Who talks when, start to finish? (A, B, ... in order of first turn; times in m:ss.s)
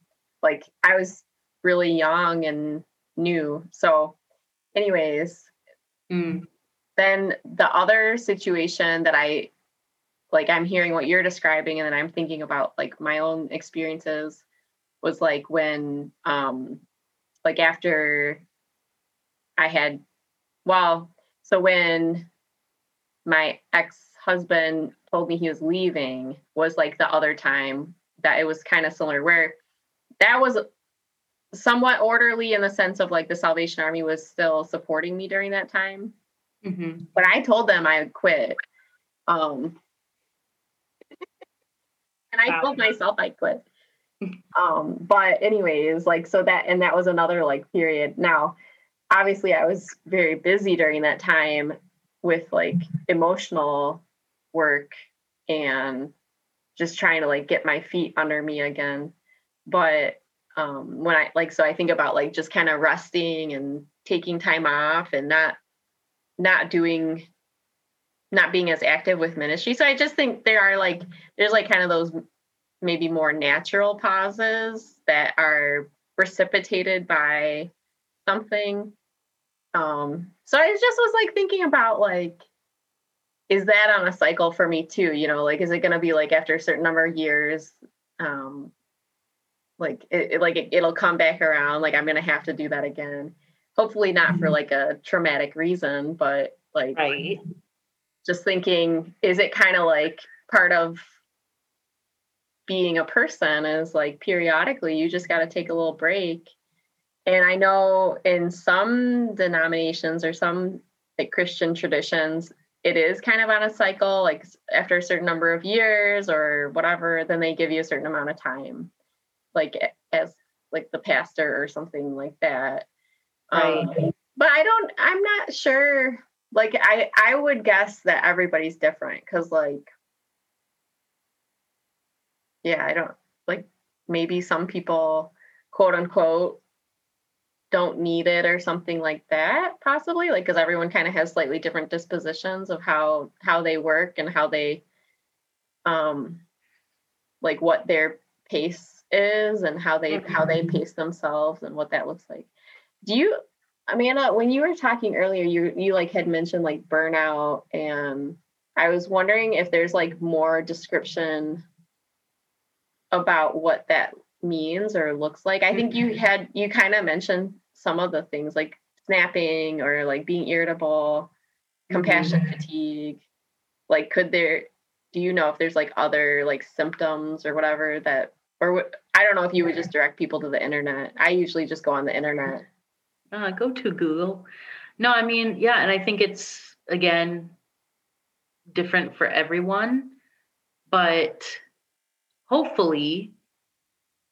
0:00.4-0:04.2 A
0:04.7-0:05.5 A
0:06.1-0:06.5 B
0:07.0-0:09.5 A
0:10.3-0:14.4 A
0:15.0-0:16.8 A
0:17.4-0:18.4 A
0:19.6-0:20.0 A
0:20.6-0:22.3 A
0:23.2-0:29.6 A
0:30.2-0:30.6 A
0:31.5-0:36.1 A
0:36.6-0:37.1 B
0:37.2-0:38.6 A
0:39.3-0:39.8 A
0:42.3-0:43.6 A
0:42.5-0:42.8 B
0:44.6-0:48.6 A
0:49.1-0:54.0 A
0:54.5-0:54.9 A
0:55.5-0:56.1 A
0:56.8-0:59.1 A
0:59.7-1:05.6 A
1:06.4-1:07.3 A
1:08.3-1:12.2 A
1:12.8-1:17.7 A
1:18.3-1:18.9 A
1:19.7-1:22.4 A
1:23.5-1:28.7 A
1:29.8-1:37.0 A
1:36.9-1:37.4 B
1:38.2-1:41.1 A
1:42.7-1:46.5 A
1:47.3-1:58.9 A
1:59.5-2:02.9 A
2:03.5-2:09.9 A
2:03.5-2:04.0 B
2:12.6-2:16.6 A
2:17.7-2:24.8 A
2:25.8-2:26.4 A
2:27.4-2:32.5 A
2:30.1-2:30.8 B
2:33.0-2:41.6 A
2:43.1-2:51.3 A
2:51.9-2:52.4 B
2:51.9-2:53.2 A
2:53.9-3:02.7 A
3:03.3-3:04.5 B
3:05.0-3:07.6 B
3:08.7-3:10.2 B
3:10.9-3:11.6 B
3:12.5-3:13.3 B